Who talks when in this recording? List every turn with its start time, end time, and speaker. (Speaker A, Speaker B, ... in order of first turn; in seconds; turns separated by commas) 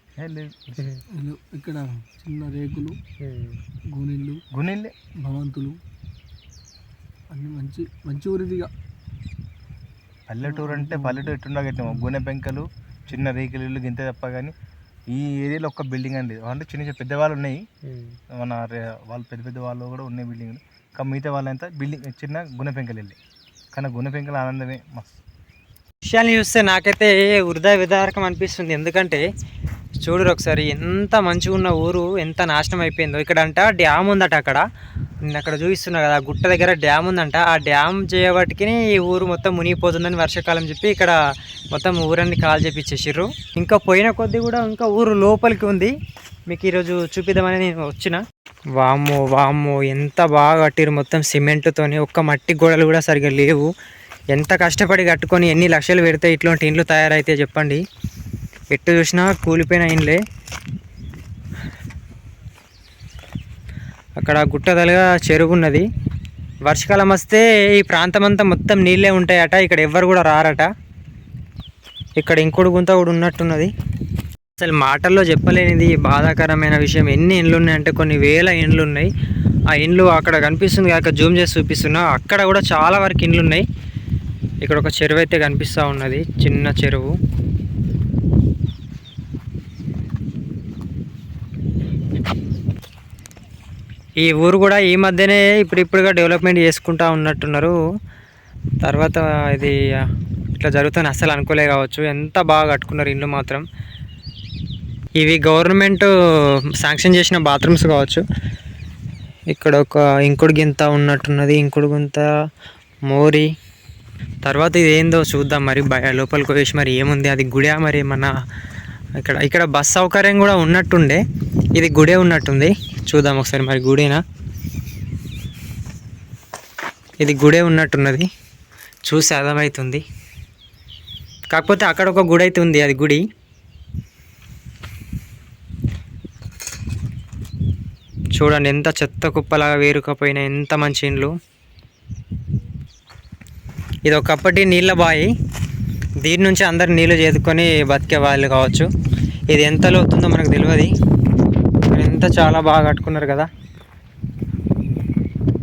Speaker A: 0.2-0.8, Speaker B: 0.8-1.0, Speaker C: 1.1-3.0, Speaker B: 3.2-3.6, Speaker C: 3.9-4.4, Speaker A: 4.5-4.9, Speaker C: 5.2-5.8, Speaker C: 7.3-8.7, Speaker A: 10.3-14.5, Speaker C: 10.5-11.3, Speaker A: 15.1-17.6, Speaker B: 17.9-18.2, Speaker A: 18.4-23.2, Speaker A: 23.7-25.2, Speaker B: 26.1-29.2, Speaker B: 30.0-34.6, Speaker B: 35.3-41.1, Speaker B: 41.7-45.9, Speaker B: 46.5-48.2, Speaker B: 48.8-53.7, Speaker B: 54.3-57.8, Speaker B: 58.7-60.2, Speaker B: 64.2-65.8, Speaker B: 66.7-70.7, Speaker B: 72.2-73.7, Speaker B: 74.6-79.1, Speaker B: 79.8-83.6, Speaker B: 84.6-87.1, Speaker B: 94.2-97.8, Speaker B: 98.8-99.7, Speaker B: 100.6-103.6, Speaker B: 105.2-106.1, Speaker B: 106.8-108.2, Speaker B: 109.5-112.3, Speaker B: 113.1-113.5, Speaker B: 114.4-118.3, Speaker B: 119.2-121.2, Speaker B: 121.8-124.2, Speaker B: 127.2-128.3, Speaker B: 129.1-130.0, Speaker B: 131.5-133.2, Speaker B: 138.3-141.3, Speaker B: 144.1-145.3, Speaker B: 146.2-148.9, Speaker B: 149.5-150.9, Speaker B: 151.9-153.5